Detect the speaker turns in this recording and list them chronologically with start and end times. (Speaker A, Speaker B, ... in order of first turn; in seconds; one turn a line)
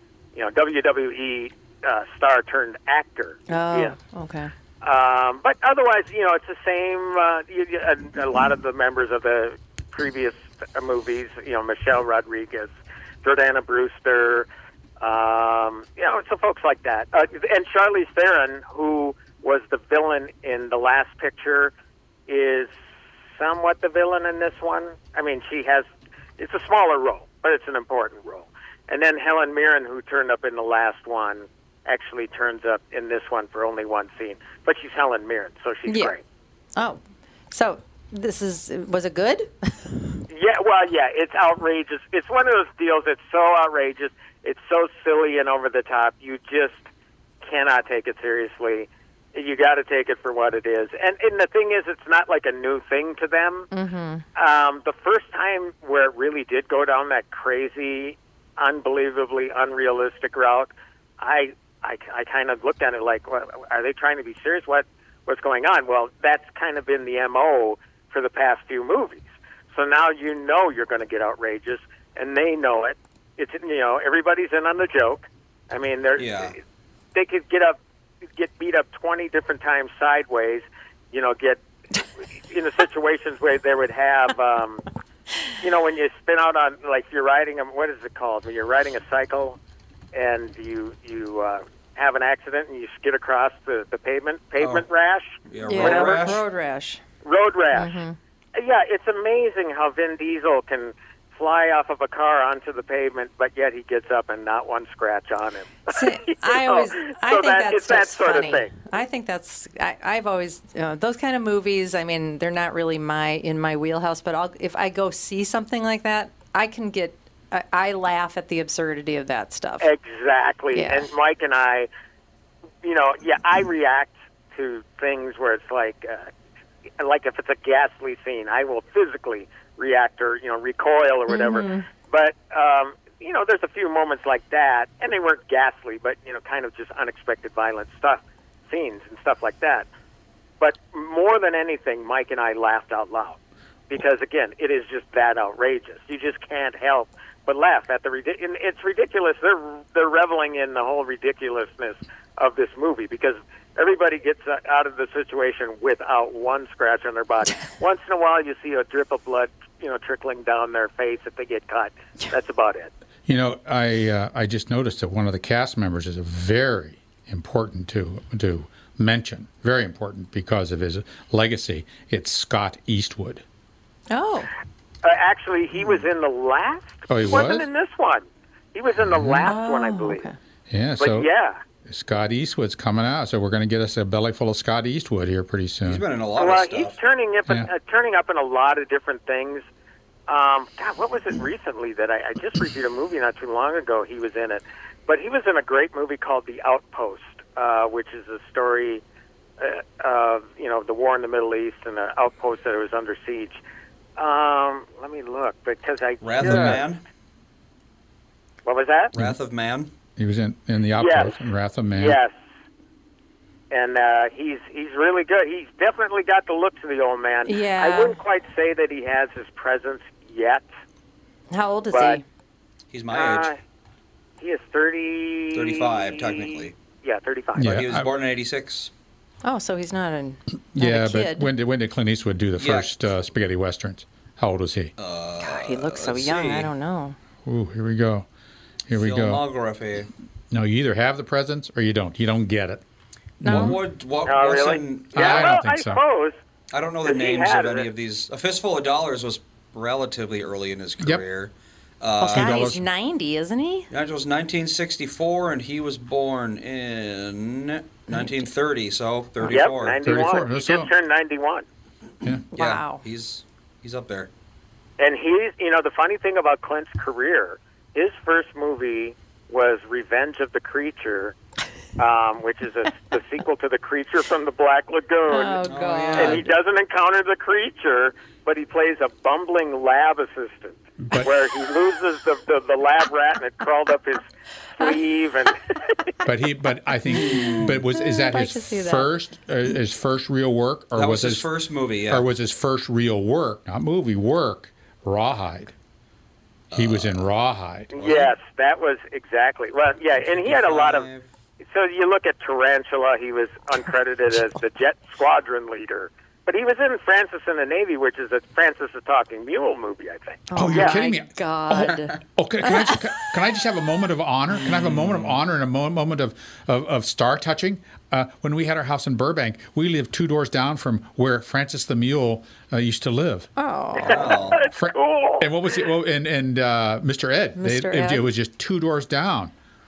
Speaker A: 0.3-4.0
Speaker B: 3.5-4.5
Speaker A: 4.8-12.7
Speaker A: 13.2-14.5
Speaker A: 15.0-21.7
Speaker A: 22.3-22.7
Speaker A: 23.4-25.9
Speaker A: 26.4-36.2
Speaker B: 35.9-36.1
Speaker B: 37.5-39.9
Speaker A: 40.3-46.9
Speaker A: 47.4-53.7
Speaker B: 53.7-54.2
Speaker A: 54.4-76.6
Speaker C: 76.2-76.5
Speaker A: 77.1-77.8
Speaker A: 78.4-81.6
Speaker A: 82.4-84.9
Speaker A: 85.6-89.6
Speaker A: 90.1-96.2
Speaker C: 94.6-94.9
Speaker C: 95.5-96.4
Speaker B: 95.7-97.0
Speaker A: 97.2-98.0
Speaker B: 97.7-98.2
Speaker A: 98.5-108.7
Speaker B: 105.9-119.9
Speaker A: 119.8-121.9
Speaker B: 120.7-121.1
Speaker A: 122.8-126.3
Speaker A: 127.0-139.9
Speaker B: 131.3-131.9
Speaker A: 140.6-143.4
Speaker A: 143.9-162.9
Speaker D: 163.3-173.4
Speaker B: 174.1-174.5
Speaker A: 175.0-180.3
Speaker D: 177.1-177.7
Speaker D: 179.1-179.5
Speaker B: 179.4-180.3
Speaker D: 180.7-181.3
Speaker A: 181.0-181.6
Speaker D: 181.9-186.1
Speaker C: 185.8-187.0
Speaker A: 186.4-189.7
Speaker A: 190.3-199.0
Speaker A: 199.6-203.6
Speaker A: 204.2-206.8
Speaker C: 206.2-207.0
Speaker D: 206.4-206.8
Speaker A: 208.7-209.1
Speaker C: 209.2-209.9
Speaker D: 210.2-212.2
Speaker A: 211.0-211.4
Speaker A: 211.9-212.3
Speaker A: 213.7-220.7
Speaker B: 217.4-218.2
Speaker B: 221.5-222.2
Speaker A: 221.9-222.2
Speaker C: 222.9-223.6
Speaker A: 223.1-223.6
Speaker A: 224.4-227.8
Speaker C: 225.5-226.7
Speaker D: 227.6-228.1
Speaker C: 227.6-228.9
Speaker B: 229.4-231.5
Speaker D: 230.7-234.9
Speaker C: 232.6-233.0
Speaker C: 235.0-236.7
Speaker B: 235.4-237.2
Speaker D: 237.4-238.3
Speaker D: 238.9-239.4
Speaker C: 238.9-240.1
Speaker D: 240.5-242.8
Speaker B: 243.4-243.8
Speaker D: 243.4-243.8
Speaker C: 243.5-245.6
Speaker A: 244.3-246.4
Speaker D: 245.1-246.0
Speaker C: 246.7-252.8
Speaker A: 247.0-247.9
Speaker B: 252.2-253.9
Speaker D: 252.3-252.8
Speaker C: 253.9-260.2
Speaker A: 259.5-261.6
Speaker D: 260.0-260.9
Speaker D: 262.2-262.5
Speaker B: 262.5-263.0
Speaker C: 262.6-264.3
Speaker A: 265.0-271.4
Speaker A: 272.0-275.6
Speaker B: 275.3-276.5
Speaker C: 275.6-276.5
Speaker A: 276.1-285.9
Speaker D: 286.2-291.5
Speaker C: 287.1-287.9
Speaker B: 287.6-289.1
Speaker C: 291.0-292.3
Speaker D: 292.1-295.7
Speaker C: 296.7-297.3
Speaker D: 296.7-297.9
Speaker A: 297.9-301.1
Speaker C: 297.9-298.3
Speaker C: 300.3-301.3
Speaker A: 301.6-311.0
Speaker B: 310.5-313.1
Speaker D: 310.6-323.5
Speaker C: 314.5-315.4
Speaker B: 323.6-324.5
Speaker A: 324.0-325.4
Speaker C: 324.0-324.6
Speaker D: 324.6-329.5
Speaker B: 327.6-328.3